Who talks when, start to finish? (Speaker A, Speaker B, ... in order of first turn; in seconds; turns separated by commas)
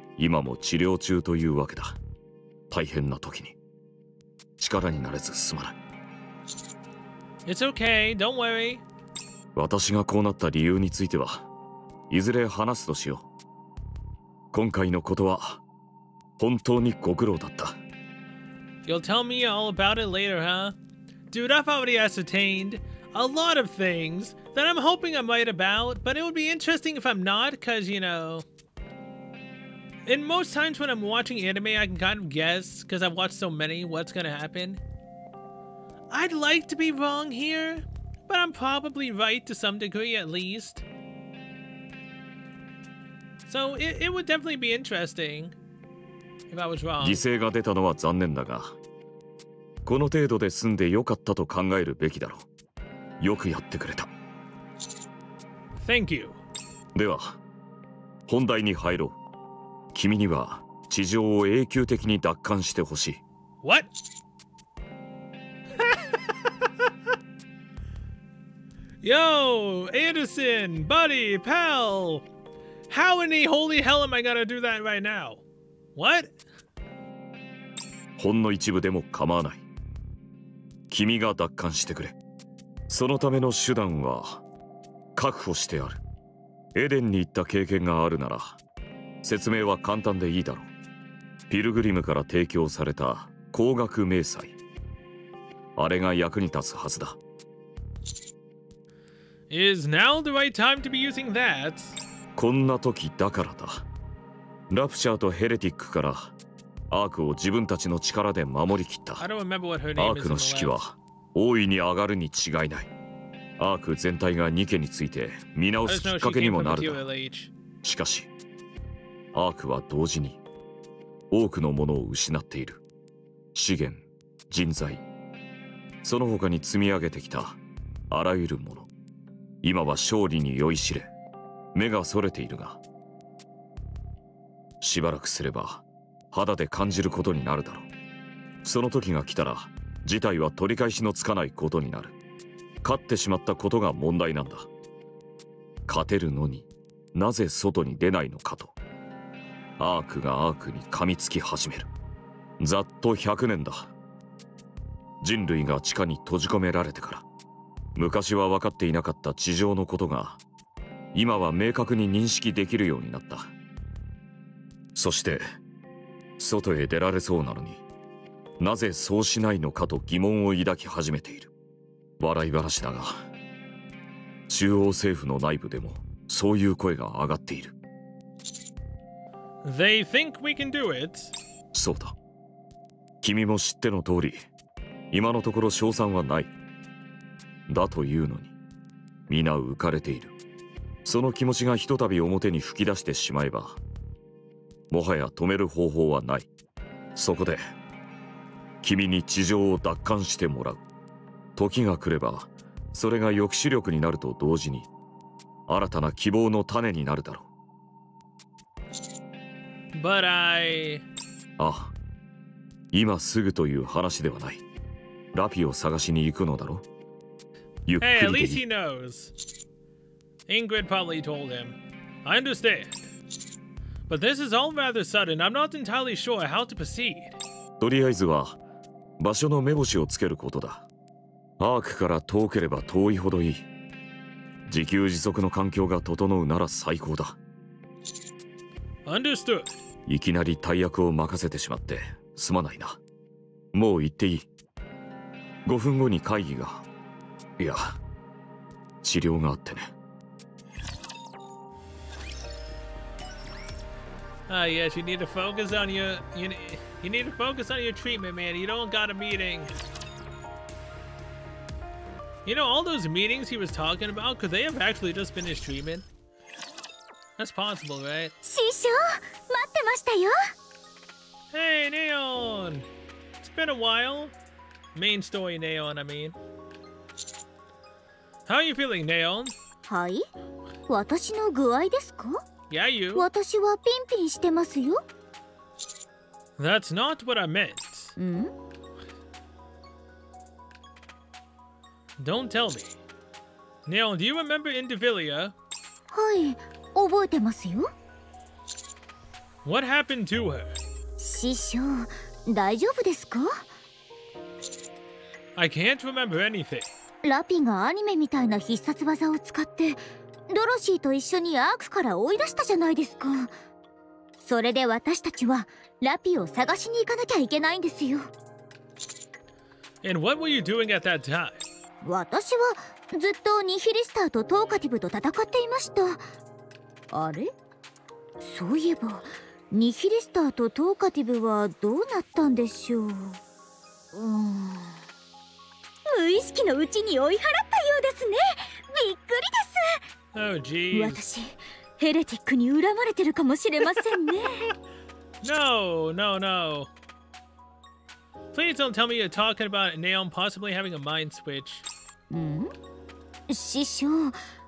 Speaker A: 0.2-2.0, Speaker A: 2.7-3.5, Speaker A: 4.6-5.8, Speaker B: 7.5-8.8, Speaker A: 9.5-11.4, Speaker A: 12.1-13.2, Speaker A: 14.5-15.6, Speaker A: 16.4-17.8, Speaker B: 18.8-20.8, Speaker B: 21.3-28.4, Speaker B: 30.1-34.8, Speaker B: 36.1-40.8, Speaker B: 43.5-45.5, Speaker B: 46.5-47.2, Speaker A: 47.0-48.7, Speaker A: 49.8-52.5, Speaker A: 53.2-54.1, Speaker B: 55.8-56.4, Speaker A: 56.9-57.4, Speaker A: 58.3-59.1, Speaker A: 59.9-63.2, Speaker B: 63.6-63.9, Speaker B: 69.0-72.2, Speaker B: 72.9-75.4, Speaker B: 76.0-76.3, Speaker A: 78.2-79.6, Speaker A: 80.9-82.1, Speaker A: 82.9-84.4, Speaker A: 85.2-86.0, Speaker A: 86.7-88.6, Speaker A: 89.2-90.7, Speaker A: 91.5-94.5, Speaker A: 95.8-97.2, Speaker B: 99.5-102.0, Speaker A: 102.3-103.8, Speaker A: 104.7-106.3, Speaker A: 106.9-109.2, Speaker B: 109.2-110.8, Speaker A: 110.0-112.9, Speaker A: 113.6-117.0, Speaker B: 115.8-117.5, Speaker A: 117.8-118.3, Speaker A: 119.3-120.4, Speaker A: 121.3-122.8, Speaker A: 123.5-125.0, Speaker A: 126.0-127.6, Speaker A: 128.1-128.9, Speaker A: 129.6-131.1, Speaker A: 131.7-132.8, Speaker A: 134.8-137.9, Speaker A: 138.6-142.1, Speaker A: 142.8-144.7, Speaker A: 145.9-148.7, Speaker A: 149.8-151.9, Speaker A: 152.6-153.9, Speaker A: 155.2-157.2, Speaker A: 157.9-160.4, Speaker A: 161.1-163.5, Speaker A: 164.9-165.4, Speaker A: 166.4-167.8, Speaker A: 168.6-171.5, Speaker A: 172.2-173.2, Speaker A: 174.5-177.7, Speaker B: 179.6-181.3, Speaker A: 181.7-182.1, Speaker A: 183.2-184.5, Speaker A: 185.1-186.5, Speaker A: 187.7-188.5, Speaker A: 189.3-190.3, Speaker A: 191.0-193.8, Speaker A: 194.9-196.5, Speaker A: 197.1-197.6, Speaker A: 198.8-200.8, Speaker A: 201.6-204.9, Speaker A: 205.7-207.5, Speaker B: 209.9-211.0, Speaker A: 211.6-211.9, Speaker A: 212.9-214.6, Speaker A: 215.3-216.8, Speaker A: 217.8-218.6, Speaker B: 218.0-219.3, Speaker B: 220.5-223.0, Speaker B: 224.1-227.3, Speaker A: 227.8-228.6, Speaker A: 229.2-230.9, Speaker A: 231.6-233.7, Speaker A: 234.7-237.4, Speaker B: 239.1-239.7, Speaker A: 240.1-243.0, Speaker A: 243.7-244.5, Speaker A: 245.6-246.8, Speaker A: 247.6-248.0, Speaker A: 249.0-249.9, Speaker B: 254.5-259.7, Speaker B: 262.4-266.0, Speaker B: 267.4-268.3, Speaker C: 268.4-270.5, Speaker B: 271.5-272.9, Speaker B: 273.4-274.3, Speaker B: 274.9-276.4, Speaker B: 278.5-279.5, Speaker C: 279.9-280.2, Speaker C: 280.9-282.4, Speaker B: 282.7-283.3, Speaker C: 283.1-285.0, Speaker B: 286.6-288.1, Speaker C: 288.2-288.5, Speaker B: 292.2-293.0, Speaker B: 293.9-295.5, Speaker C: 296.1-297.9, Speaker B: 299.6-300.8, Speaker C: 301.2-303.6, Speaker B: 305.6-306.9, Speaker C: 307.2-313.5, Speaker C: 314.4-318.3, Speaker B: 320.0-321.6, Speaker C: 322.0-326.2, Speaker C: 327.1-327.5, Speaker C: 328.4-333.4, Speaker C: 334.1-335.0, Speaker C: 336.1-340.0, Speaker B: 340.3-341.2, Speaker C: 340.9-344.7, Speaker B: 345.4-346.9, Speaker B: 348.5-351.8, Speaker C: 352.3-352.7, Speaker C: 353.5-354.4